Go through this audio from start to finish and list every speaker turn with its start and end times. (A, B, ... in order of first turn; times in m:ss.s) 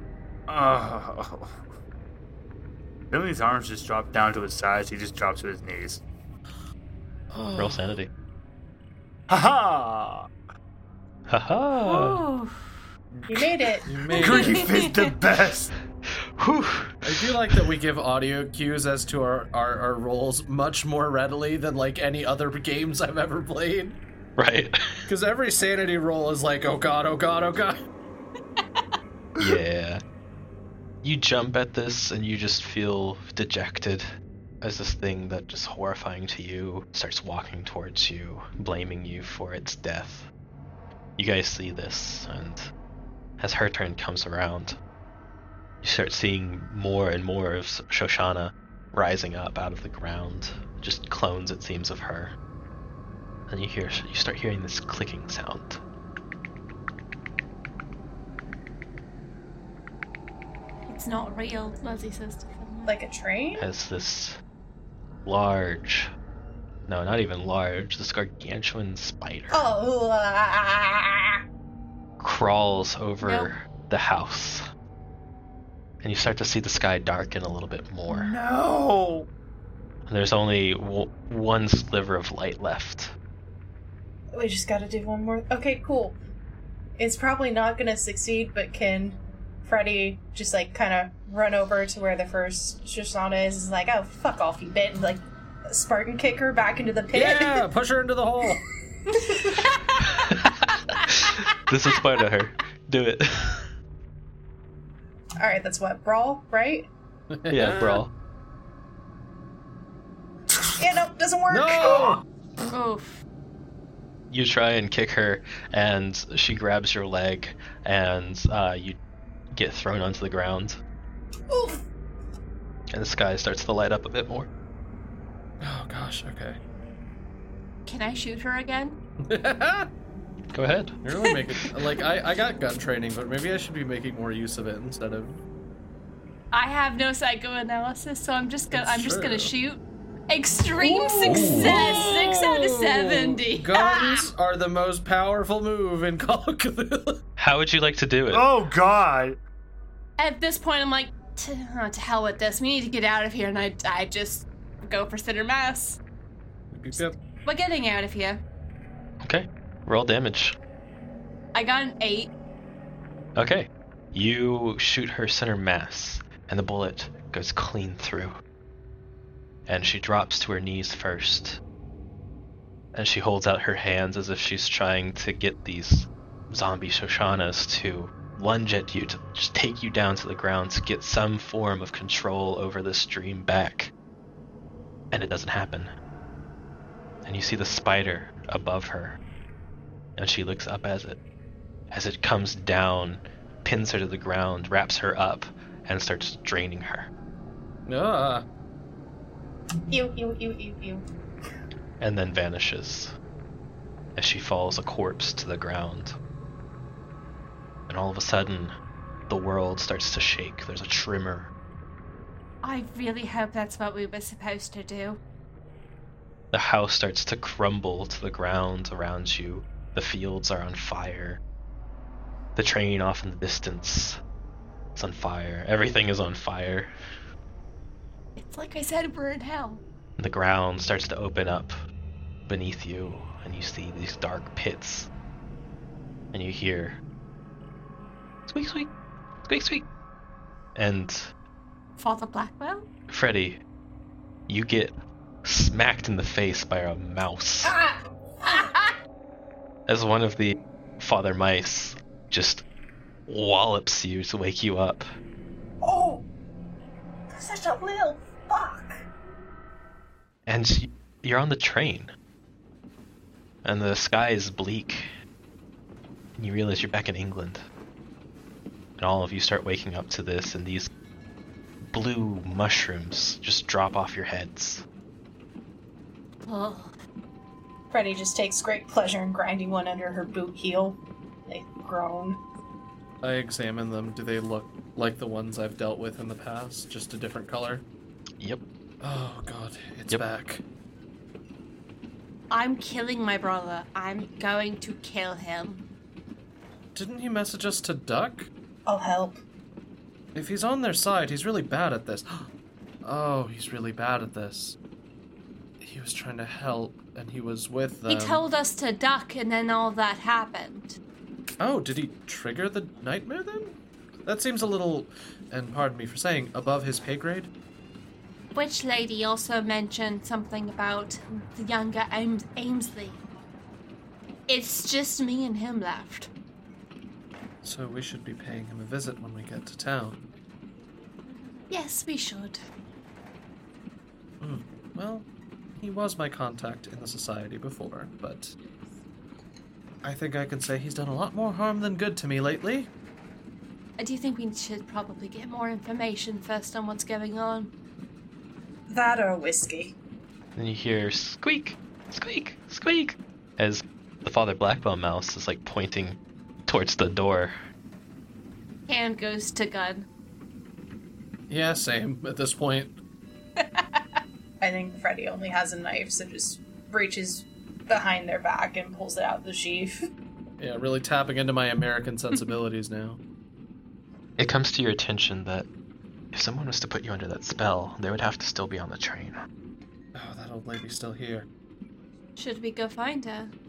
0:00.5-0:01.6 A
0:03.1-0:06.0 A
0:07.3-0:08.0 B
0:07.6-0:08.1 C
0:09.3-0:10.3 A
0:11.3-0:12.2 C
0:11.8-0:12.8 D
0:13.3-0:14.0 E
0:13.8-0:14.7 B
0:14.1-0:15.7 A
0:14.1-0:15.1 D
0:16.1-0:17.7 C
0:17.0-0:24.0 B
0:24.4-0:25.0 C
0:25.1-0:27.8 B
0:29.4-0:30.0 C
0:31.0-0:34.1 C
0:34.6-0:40.3 C
0:41.2-0:42.7 C
0:43.4-0:44.8 C
0:45.8-0:52.3 C
0:53.5-0:55.8 C
1:00.9-1:03.0 D
1:02.9-1:03.7 E
1:03.6-1:04.4 C
1:05.2-1:06.1 C
1:06.9-1:09.6 C
1:09.5-1:11.4 E
1:12.2-1:14.7 C
1:13.2-1:13.5 D
1:16.0-1:18.3 C
1:18.1-1:19.3 A
1:20.1-1:23.1 C
1:24.4-1:26.2 E
1:27.0-1:37.7 E
1:37.1-1:38.6 B
1:39.1-1:39.6 E
1:39.5-1:41.4 D
1:40.0-1:43.7 C
1:45.4-1:46.9 E
1:47.3-1:48.0 B
1:47.5-1:48.1 C
1:50.8-1:52.2 E
1:51.5-1:52.2 B
1:52.6-1:53.2 D
1:54.3-1:59.0 C
1:59.5-2:00.8 C
2:01.5-2:01.8 E
2:02.9-2:04.5 C
2:05.6-2:06.6 B
2:07.9-2:09.0 D
2:09.2-2:09.9 B
2:10.5-2:11.0 C
2:11.0-2:15.4 B
2:16.5-2:24.3 D
2:18.7-2:19.5 B
2:20.9-2:27.2 B
2:21.2-2:21.7 E
2:21.3-2:21.9 C
2:27.4-2:28.5 C
2:28.3-2:29.4 A
2:30.2-2:36.0 D
2:36.7-2:37.2 B
2:36.9-2:38.4 D
2:39.2-2:40.6 C
2:41.6-2:42.3 D
2:43.4-2:48.4 C
2:49.7-2:51.6 C
2:52.9-3:03.9 C
3:05.1-3:05.9 C
3:07.2-3:09.2 C
3:10.2-3:11.2 C
3:11.9-3:17.1 C
3:17.9-3:18.4 B
3:19.9-3:21.0 E
3:22.0-3:23.1 C
3:24.2-3:26.2 C
3:27.9-3:28.7 C
3:29.3-3:31.5 C
3:32.6-3:35.2 D
3:36.5-3:41.4 C
3:42.6-3:44.2 C
3:45.0-3:46.9 C
3:48.4-3:49.8 D
3:50.2-3:51.8 C
3:52.5-3:55.1 C
3:56.3-3:57.0 C
3:58.5-3:58.9 C
3:59.4-3:59.9 C
4:00.8-4:01.3 C
4:02.0-4:02.9 D
4:03.1-4:03.6 C
4:04.5-4:07.8 C
4:07.6-4:08.0 E
4:08.4-4:08.9 D
4:08.5-4:08.7 E
4:09.9-4:12.6 C
4:13.3-4:15.0 C
4:15.8-4:16.3 E
4:17.3-4:19.0 E
4:20.5-4:22.1 C
4:23.6-4:25.1 C
4:26.4-4:27.6 C
4:29.0-4:30.9 C
4:31.9-4:34.8 C
4:36.4-4:36.9 D
4:37.9-4:42.4 E
4:43.2-4:47.8 B
4:49.0-4:50.6 B
4:52.5-4:55.8 D
4:57.0-4:58.5 B
4:58.9-4:59.4 E
5:00.4-5:02.5 B
5:03.0-5:04.8 B
5:05.8-5:08.4 B
5:08.1-5:11.0 D
5:11.6-5:17.5 B
5:18.6-5:23.2 D
5:24.5-5:26.3 D
5:27.6-5:30.3 B
5:31.7-5:32.6 D
5:34.4-5:35.3 B
5:35.8-5:38.6 B
5:40.0-5:42.9 B
5:44.0-5:47.7 D
5:48.9-5:50.0 E
5:50.6-5:57.5 C
5:58.9-6:00.1 D
6:01.5-6:03.0 B
6:03.6-6:04.0 D
6:04.6-6:10.0 E
6:10.6-6:13.2 B
6:14.4-6:15.7 C
6:16.3-6:19.4 C
6:20.2-6:21.5 B
6:22.4-6:23.5 D